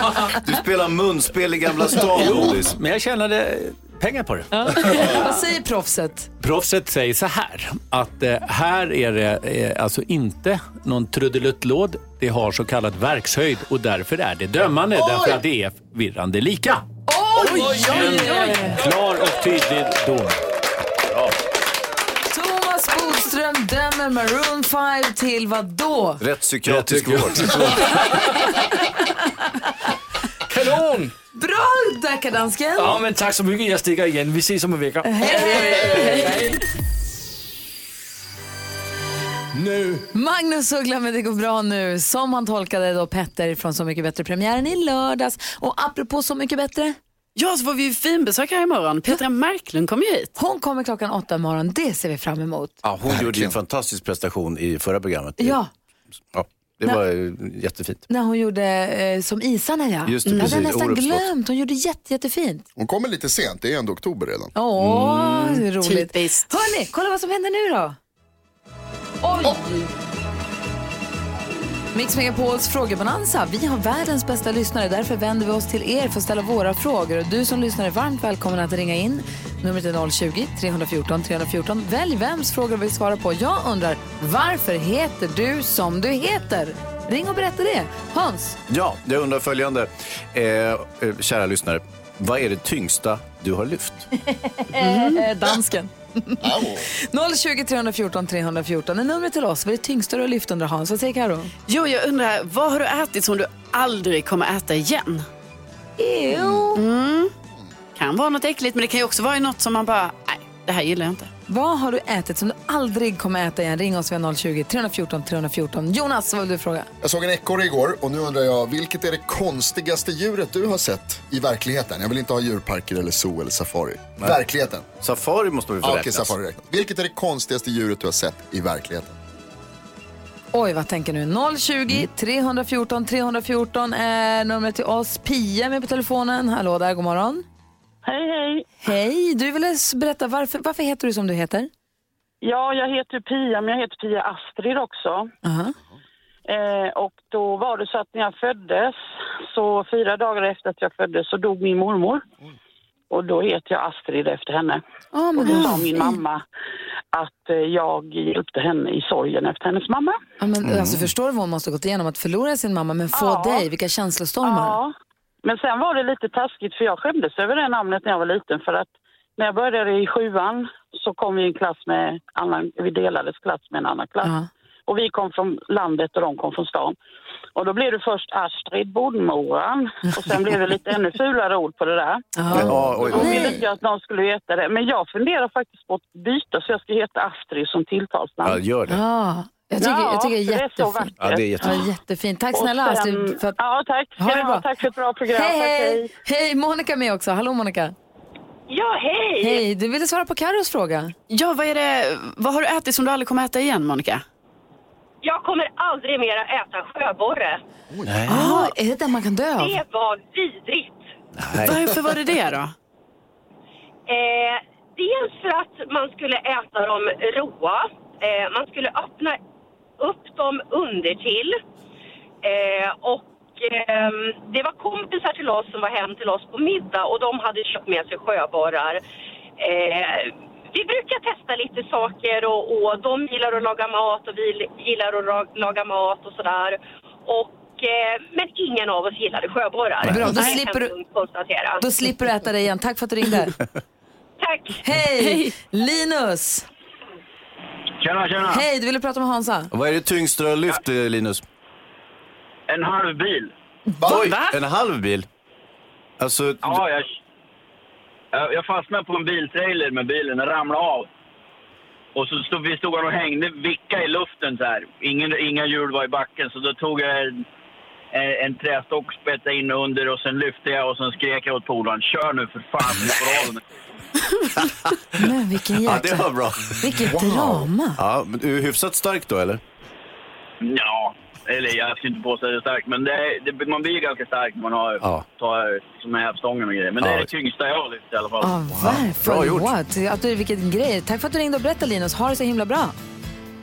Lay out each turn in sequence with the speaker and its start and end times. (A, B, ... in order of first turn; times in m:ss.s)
0:00.3-0:02.8 A
0:02.0-0:05.2 B
0:04.5-0:06.3 C
0:06.4-0:16.9 B
0:17.1-0:18.8 C
0:17.4-0:18.7 D
0:17.5-0:20.4 B
0:22.3-0:26.2 C
0:26.2-0:27.7 A
0:26.7-0:28.8 D
0:30.5-0:31.1 D
0:31.3-0:33.0 C
0:32.8-0:36.6 D
0:35.0-0:36.4 C
0:39.5-0:40.0 D
0:40.1-0:47.0 C
0:47.4-0:50.3 E
0:50.4-0:52.8 C
0:52.8-0:55.6 A
0:53.0-0:53.6 F
0:55.4-0:55.7 C
0:56.3-0:58.0 A
0:58.1-1:02.6 C
1:00.0-1:01.3 A
1:02.8-1:04.5 F
1:04.5-1:08.0 C
1:04.8-1:05.4 A
1:05.8-1:06.5 E
1:09.2-1:09.6 C
1:11.9-1:28.6 C
1:28.7-1:34.0 A
1:34.2-1:41.5 C
1:34.8-1:35.2 E
1:36.4-1:36.9 F
1:41.7-1:45.2 E
1:46.0-1:46.8 C
1:46.7-1:47.3 E
1:48.0-1:51.3 E
1:51.5-1:56.9 C
1:57.0-2:04.9 F
2:05.0-2:06.3 A
2:05.8-2:09.2 F
2:10.5-2:17.4 C
2:18.0-2:18.7 G
2:18.8-2:21.7 C
2:22.4-2:25.3 G
2:25.4-2:25.7 C
2:26.5-2:29.0 G
2:29.5-2:32.2 G
2:33.1-2:34.8 G
2:35.1-2:36.2 C
2:35.3-2:36.4 G
2:37.1-2:40.2 G
2:40.4-2:44.8 C
2:43.1-2:43.6 G
2:44.4-2:44.9 G
2:45.4-2:54.3 G
2:54.2-2:54.5 C
2:54.9-2:57.0 G
2:57.5-3:02.3 G
3:02.4-3:03.6 C
3:02.5-3:03.5 A
3:03.0-3:08.6 G
3:08.4-3:09.0 A
3:08.9-3:13.6 C
3:09.8-3:11.6 G
3:11.2-3:11.9 A
3:12.5-3:16.0 G
3:14.2-3:14.6 C
3:15.3-3:17.9 C
3:18.7-3:19.6 H
3:19.4-3:21.1 C
3:21.3-3:24.2 E
3:25.2-3:27.6 H
3:28.0-3:28.5 A
3:28.3-3:29.8 C
3:28.3-3:28.7 E
3:29.6-3:31.0 H
3:31.4-3:31.8 A
3:31.6-3:32.7 E
3:34.1-3:39.4 H
3:40.0-3:41.6 H
3:42.4-3:49.0 H
3:49.6-4:01.8 H
4:00.0-4:00.9 C
4:00.0-4:00.4 A
4:01.8-4:03.6 C
4:04.4-4:04.8 H
4:04.8-4:06.7 C
4:05.2-4:05.5 E
4:08.0-4:08.6 I
4:08.4-4:09.7 C
4:09.7-4:11.4 A
4:12.7-4:13.5 I
4:13.9-4:14.2 C
4:14.1-4:15.3 A
4:14.1-4:14.6 E
4:16.2-4:16.8 A
4:16.6-4:17.1 I
4:18.3-4:21.1 I
4:22.1-4:27.4 I
4:28.1-4:33.6 I
4:35.2-4:36.3 C
4:35.8-4:39.6 A
4:36.8-4:38.0 C
4:40.6-4:48.6 I
4:47.0-4:47.3 A
4:48.4-4:52.9 C
4:48.7-4:49.7 A